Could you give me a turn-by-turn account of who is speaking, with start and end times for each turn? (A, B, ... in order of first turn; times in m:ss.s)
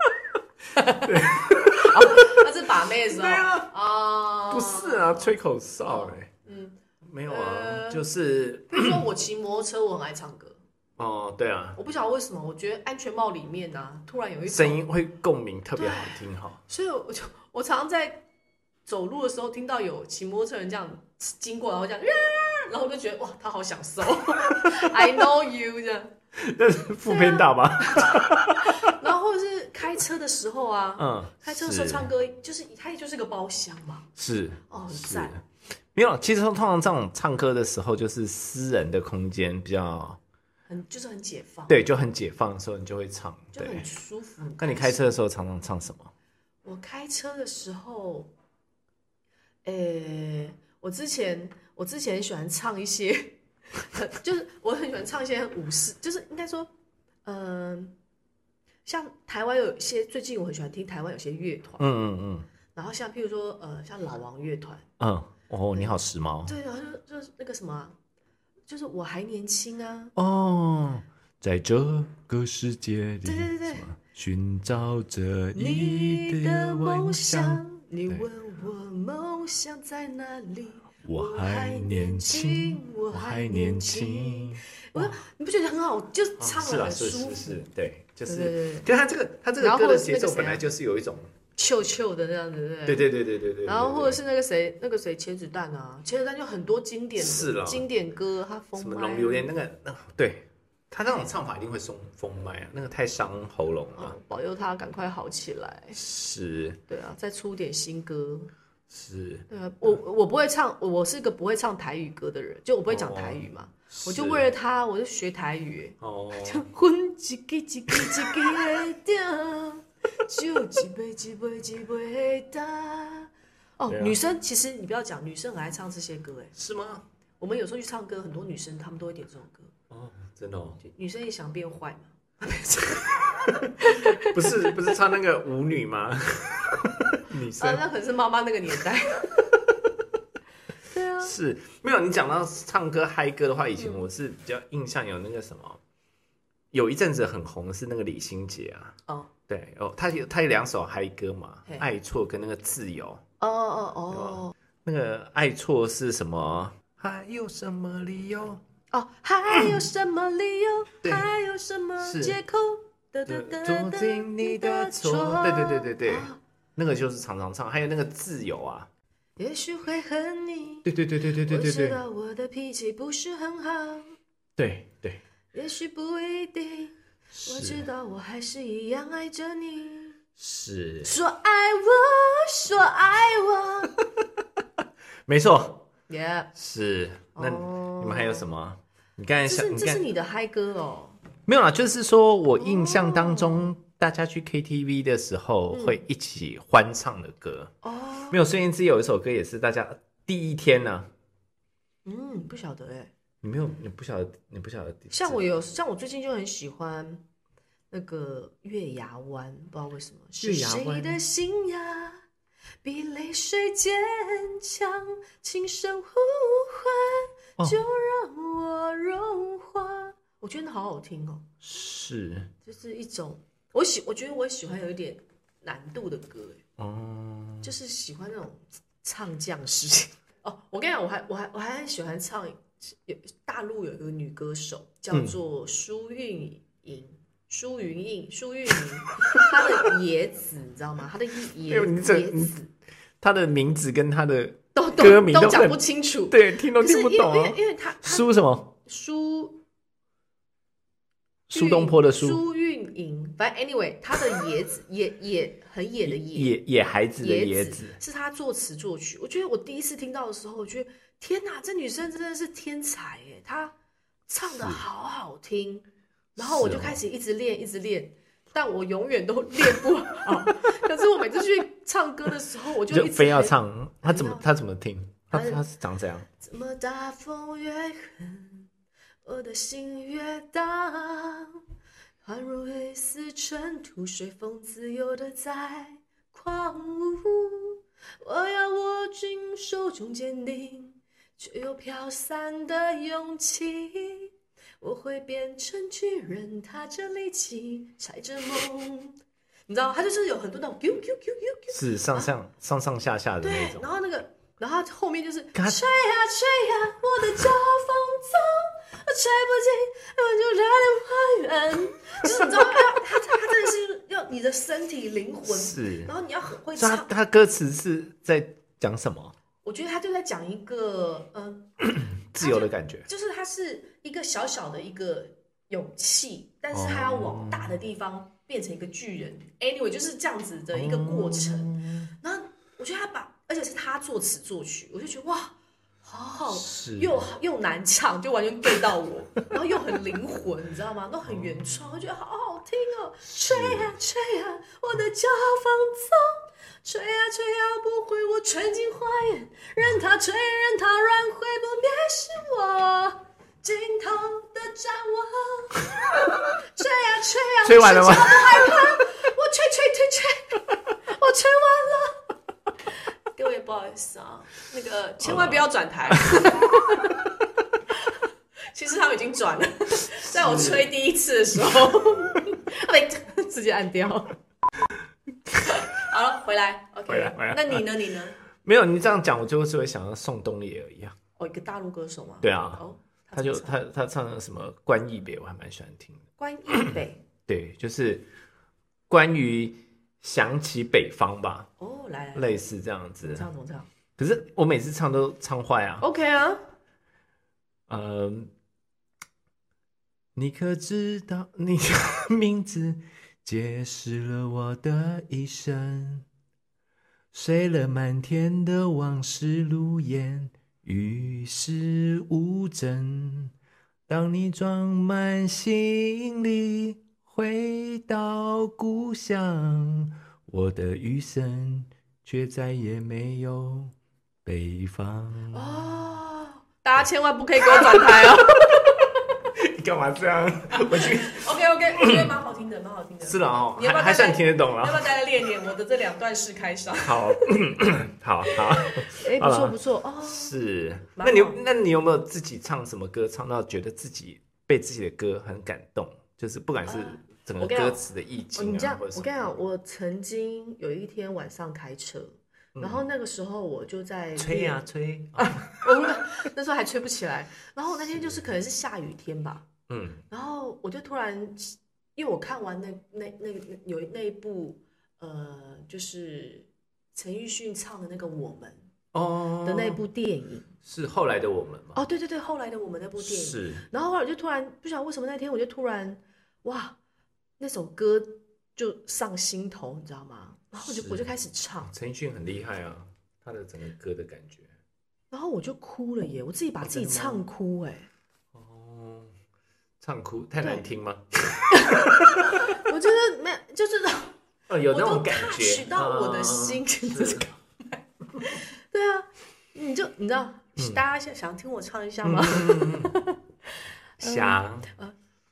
0:00.8-0:05.3 A
0:00.9-0:02.5 B
0:03.1-0:03.7 B
0:04.5-0:06.3 B
0:05.8-0:08.1 A
0:07.0-0:09.0 B
0:08.7-0:10.6 A
0:11.0-0:11.8 B
0:11.8-0:14.8 A
0:14.5-0:16.6 B
0:15.8-0:18.3 A
0:18.9-0:26.2 A
0:24.6-0:24.9 B
0:26.4-0:28.9 B
0:27.1-0:34.1 A
0:31.0-0:32.1 B
0:34.2-0:35.4 B
0:34.7-0:35.4 A
0:35.9-0:40.2 B
0:40.7-0:41.8 A
0:41.7-0:43.9 B
0:43.5-0:45.1 A
0:44.6-0:46.1 B
0:46.6-0:48.3 A
0:49.6-0:56.7 A
0:57.2-0:58.0 A
0:58.9-1:01.9 A
1:01.8-1:02.5 B
1:02.8-1:04.8 A
1:05.0-1:06.6 B
1:05.7-1:08.0 A
1:08.7-1:10.1 A
1:10.2-1:18.3 B
1:13.2-1:13.9 A
1:15.5-1:27.6 A
1:21.0-1:25.2 B
1:26.4-1:31.3 B
1:28.3-1:28.9 A
1:29.6-1:30.6 A
1:31.6-1:33.1 A
1:32.9-1:34.2 B
1:33.6-1:39.5 A
1:37.2-1:37.9 B
1:38.8-1:44.2 B
1:44.0-1:46.0 A
1:45.9-1:46.8 B
1:46.9-1:48.5 A
1:48.9-1:49.4 B
1:49.5-2:06.5 A
1:52.9-1:54.5 B
1:56.0-1:56.7 B
1:57.9-1:58.8 B
2:03.9-2:04.2 B
2:06.6-2:07.0 B
2:07.4-2:09.7 A
2:09.9-2:10.8 B
2:10.8-2:14.8 A
2:13.8-2:17.8 B
2:17.5-2:19.6 A
2:20.9-2:21.4 A
2:21.2-2:25.8 B
2:23.8-2:24.0 A
2:26.7-2:29.0 B
2:29.5-2:33.2 B
2:33.4-2:34.6 A
2:34.1-2:38.6 B
2:38.9-2:46.4 A
2:41.0-2:41.3 B
2:42.0-2:42.4 B
2:43.3-2:48.9 B
2:49.4-2:54.2 A
2:50.8-2:52.0 B
2:54.6-2:55.2 B
2:55.5-3:00.2 A
2:57.3-2:57.9 B
3:00.4-3:01.1 B
3:01.0-3:04.0 A
3:05.3-3:05.9 B
3:06.1-3:06.5 A
3:06.6-3:10.0 B
3:07.4-3:08.5 A
3:09.4-3:11.2 A
3:11.5-3:17.7 B
3:12.6-3:13.7 A
3:15.7-3:16.0 A
3:17.8-3:18.4 A
3:18.3-3:21.1 B
3:22.0-3:23.1 A
3:23.4-3:25.5 B
3:25.1-3:27.2 A
3:27.9-3:32.2 A
3:30.4-3:31.2 B
3:32.8-3:41.5 A
3:41.6-3:42.5 B
3:42.6-3:46.6 A
3:46.8-3:47.7 B
3:47.6-4:02.7 A
3:59.3-3:59.6 B
4:01.7-4:02.6 B
4:03.2-4:08.7 B
4:04.8-4:09.6 A
4:11.5-4:12.4 B
4:11.5-4:16.6 A
4:16.0-4:18.0 B
4:17.2-4:23.7 A
4:24.3-4:25.8 A
4:24.5-4:24.8 B
4:26.4-4:34.5 A
4:26.4-4:27.0 B
4:32.9-4:36.3 B
4:35.3-4:35.6 A
4:36.4-4:38.7 A
4:39.2-4:41.6 A
4:42.2-5:02.3 A
5:01.7-5:03.9 B
5:03.4-5:17.1 A
5:15.5-5:16.1 B
5:16.8-5:19.4 B
5:19.6-5:21.8 A
5:21.8-5:23.1 B
5:22.4-5:55.9 A
5:26.7-5:27.8 B
5:30.7-5:32.1 B
5:36.5-5:37.2 B
5:41.3-5:41.8 B
5:43.3-5:44.0 B
5:56.7-6:02.2 A
5:57.6-5:58.9 B
6:03.3-6:07.3 A
6:05.2-6:06.6 B
6:07.9-6:08.2 A
6:08.7-6:14.4 A
6:10.2-6:10.9 B
6:15.6-6:18.4 A
6:17.1-6:17.8 B
6:18.6-6:21.2 B
6:21.4-6:23.8 A
6:22.4-6:22.8 B
6:23.3-6:26.2 B
6:26.4-6:27.2 A
6:27.5-6:28.3 B
6:29.1-6:31.7 B
6:31.8-6:32.6 A
6:32.3-6:33.5 B
6:33.2-6:33.9 A
6:34.2-6:36.0 B
6:36.0-6:36.6 A
6:37.9-6:38.5 B
6:40.4-6:46.3 B
6:47.3-6:53.5 B
6:54.1-7:03.9 B
7:04.4-7:05.9 B
7:05.5-7:09.2 A
7:07.8-7:08.3 B
7:09.5-7:12.4 B
7:10.8-7:17.6 A
7:13.2-7:15.1 B
7:17.0-7:29.5 B
7:18.5-7:20.6 A
7:21.2-7:21.6 A
7:26.8-7:28.0 A
7:28.6-7:34.8 A
7:32.8-7:33.0 B
7:34.4-7:36.1 B
7:35.4-7:39.7 A
7:38.1-7:38.4 B
7:39.9-7:40.2 B
7:40.3-7:48.9 A
7:49.1-7:50.0 B
7:49.6-7:50.7 A
7:50.8-7:52.0 B
7:52.0-7:57.0 A
7:53.2-7:53.8 B
7:57.6-8:01.9 A
8:00.8-8:01.3 B
8:01.9-8:04.7 B
8:05.3-8:08.1 A
8:06.8-8:07.4 B
8:08.5-8:09.3 B
8:10.0-8:12.7 B
8:11.7-8:14.4 A
8:14.7-8:17.5 B
8:14.9-8:23.4 A
8:20.8-8:21.0 B
8:22.2-8:23.2 B
8:24.2-8:25.1 A
8:24.2-8:24.9 B